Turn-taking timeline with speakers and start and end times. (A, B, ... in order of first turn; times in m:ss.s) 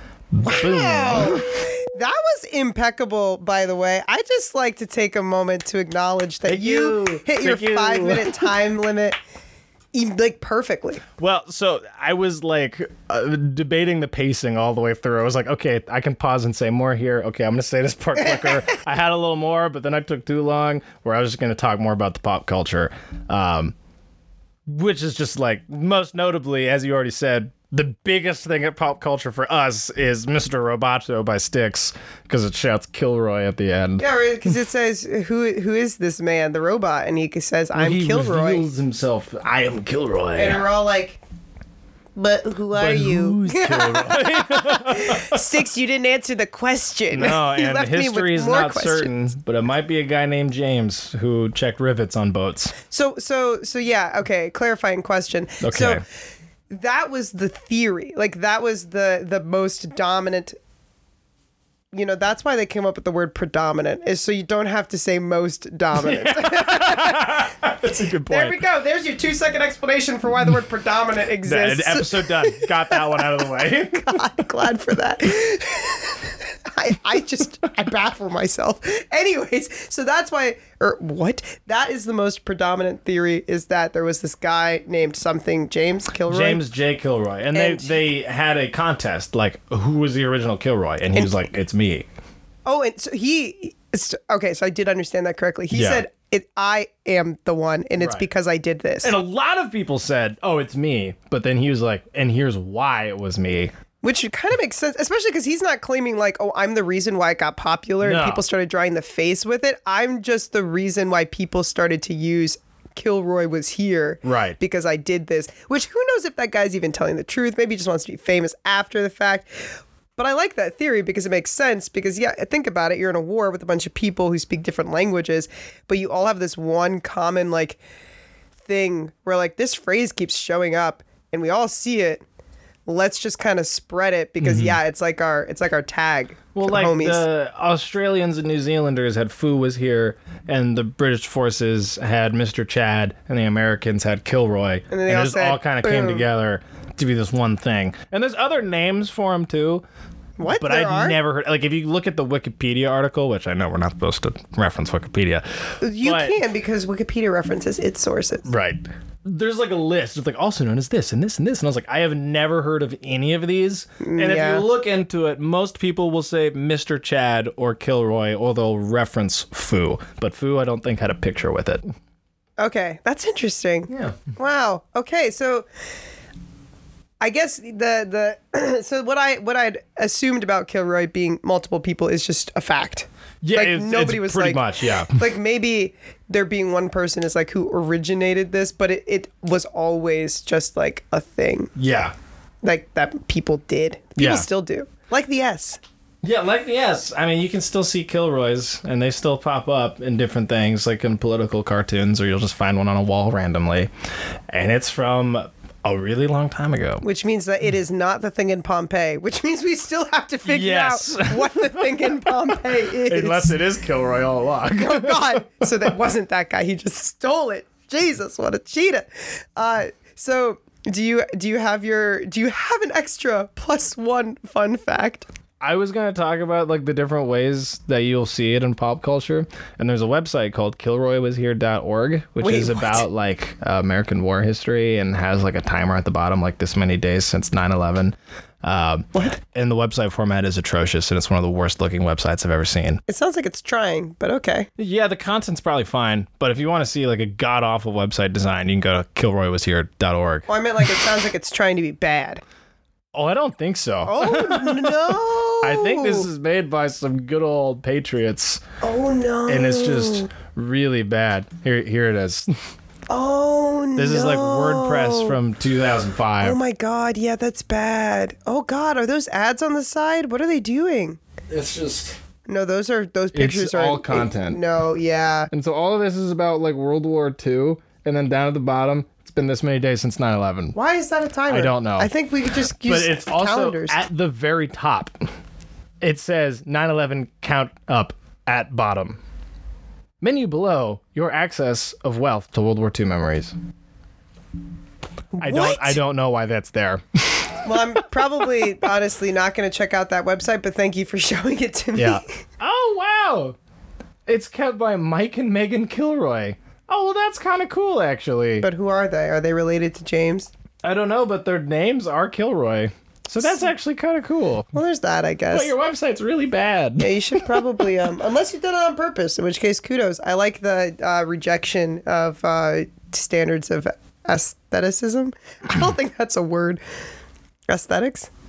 0:00.3-0:01.6 A
0:00.4-0:09.2 B
0:06.5-0:08.5 A
0:09.9-0:11.0 B
0:11.2-0:23.7 A
0:24.7-0:34.1 A
0:34.0-0:38.6 B
0:37.8-0:40.7 A
0:40.4-0:41.2 B
0:42.2-0:49.1 B
0:42.7-0:45.4 A
0:47.1-0:52.7 A
0:52.9-0:56.0 B
0:55.6-0:56.0 A
0:56.7-1:00.6 B
1:01.9-1:07.4 B
1:06.0-1:08.6 A
1:08.3-1:26.6 B
1:11.4-1:14.2 A
1:26.3-1:32.1 A
1:27.5-1:28.0 B
1:32.6-1:39.2 B
1:35.7-1:36.0 A
1:38.0-1:38.3 A
1:39.0-1:43.7 A
1:44.0-2:07.8 B
1:48.0-1:48.4 A
1:54.2-1:54.6 A
2:08.6-2:12.2 B
2:12.9-2:17.2 B
2:14.4-2:14.8 A
2:16.6-2:29.8 A
2:24.9-2:26.3 B
2:30.4-2:31.2 B
2:30.6-2:36.4 A
2:35.8-2:38.5 B
2:38.4-2:51.8 A
2:44.0-2:44.7 B
2:52.6-2:55.7 B
2:53.9-2:54.2 A
2:57.2-3:11.7 B
3:03.4-3:05.3 A
3:11.8-3:12.1 A
3:12.6-3:15.8 B
3:14.2-3:14.5 A
3:16.2-3:23.9 A
3:24.5-3:27.0 A
3:27.0-3:33.6 B
3:30.5-3:35.6 A
3:34.7-3:45.3 B
3:45.6-4:03.0 A
3:52.4-3:53.1 B
4:03.1-4:04.7 B
4:04.8-4:10.5 A
4:10.5-4:12.4 B
4:13.1-4:18.6 A
4:14.0-4:16.3 B
4:18.8-4:20.3 B
4:19.5-4:22.5 A
4:23.1-4:25.4 B
4:24.0-4:26.6 A
4:26.4-4:31.2 B
4:31.5-4:32.2 A
4:32.5-4:35.5 B
4:33.3-4:34.6 A
4:35.5-4:40.8 A
4:40.7-4:44.0 B
4:41.5-4:42.1 A
4:42.8-4:45.2 A
4:46.0-4:49.2 A
4:50.2-4:53.6 A
4:55.4-4:56.0 B
4:55.4-4:57.5 A
4:57.6-5:02.2 B
5:02.0-5:03.6 A
5:04.3-5:08.7 A
5:08.6-5:10.5 B
5:10.8-5:14.7 A
5:13.4-5:13.7 B
5:14.7-5:15.7 B
5:15.5-5:17.6 A
5:17.0-5:26.8 B
5:27.7-5:28.3 B